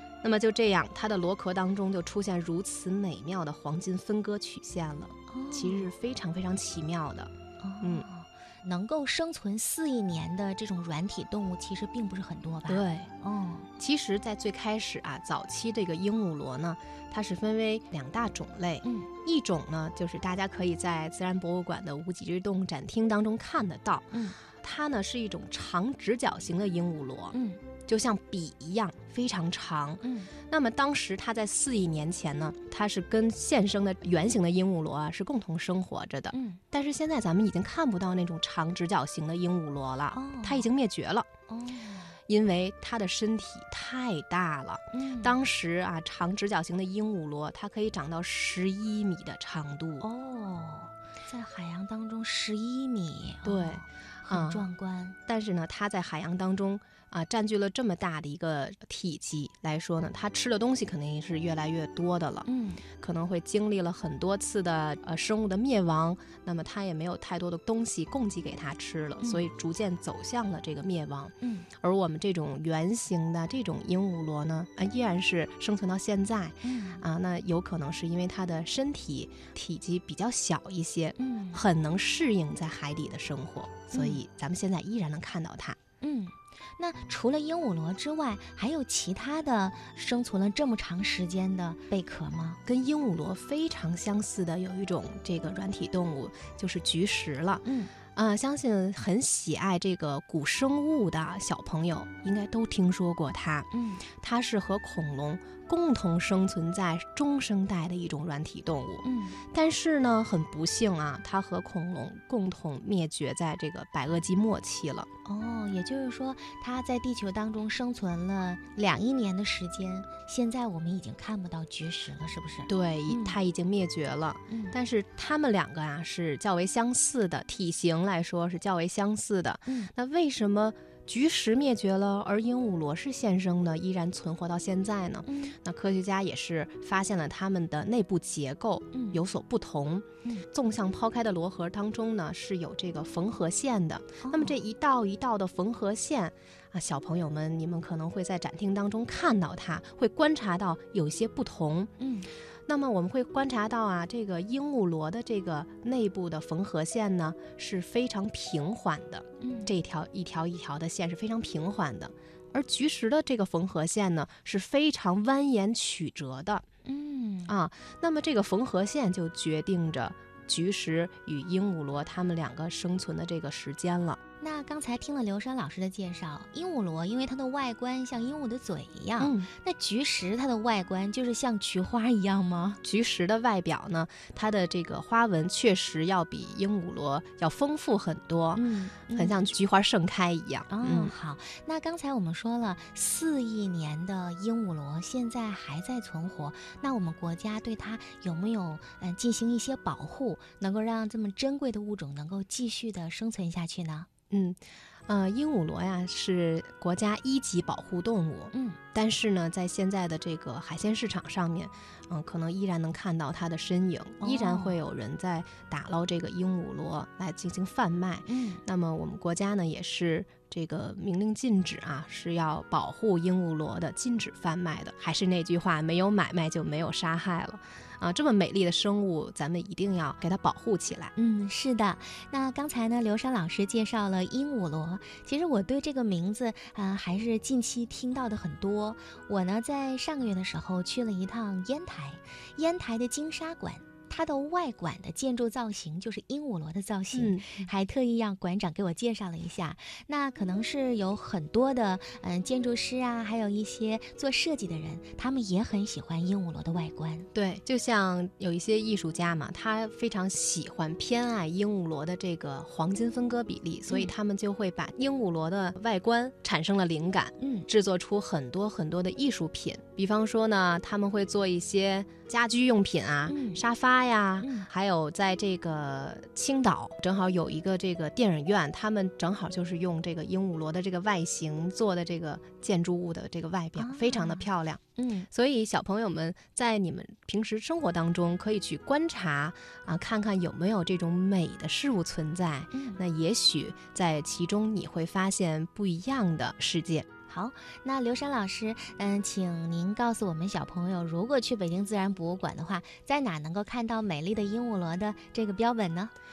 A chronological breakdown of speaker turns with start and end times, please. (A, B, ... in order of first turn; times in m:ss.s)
0:00.2-0:08.1 A
0:05.3-0:05.9 B
0:07.6-0:13.7 B
0:12.7-0:13.1 A
0:13.8-0:41.3 A
0:18.8-0:19.1 B
0:24.1-0:24.4 B
0:27.3-0:27.6 B
0:30.0-0:30.3 B
0:36.3-0:36.6 B
0:40.1-0:40.7 B
0:41.5-0:42.2 B
0:42.3-0:50.0 A
0:44.9-0:45.4 B
0:50.0-0:55.2 B
0:53.4-0:54.7 A
0:55.3-1:02.5 A
1:02.4-1:02.8 B
1:03.0-1:25.8 A
1:09.2-1:09.5 B
1:11.4-1:11.7 B
1:16.6-1:17.0 B
1:21.2-1:21.6 B
1:23.9-1:24.2 B
1:26.0-1:32.6 B
1:32.6-1:55.1 A
1:37.6-1:37.9 B
1:43.7-1:44.0 B
1:49.0-1:49.4 B
1:55.2-2:03.4 B
2:02.7-2:31.9 A
2:04.5-2:04.8 B
2:15.3-2:15.6 B
2:18.9-2:19.2 B
2:24.2-2:24.6 B
2:32.0-2:32.3 B
2:32.7-2:46.6 A
2:39.4-2:39.7 B
2:46.8-2:47.6 B
2:47.5-2:54.2 A
2:54.4-3:02.8 B
2:59.2-2:59.5 A
3:02.8-3:11.1 A
3:08.6-3:09.4 B
3:10.7-3:24.1 B
3:24.3-3:51.1 A
3:28.5-3:28.8 B
3:34.2-3:34.8 B
3:38.3-3:38.6 B
3:51.2-4:17.3 B
4:07.1-4:07.7 A
4:17.3-4:57.1 A
4:27.4-4:27.7 B
4:33.3-4:33.6 B
4:34.4-4:34.7 B
4:43.8-4:44.5 B
4:45.0-4:45.3 B
4:52.7-4:53.0 B
4:57.3-5:06.1 B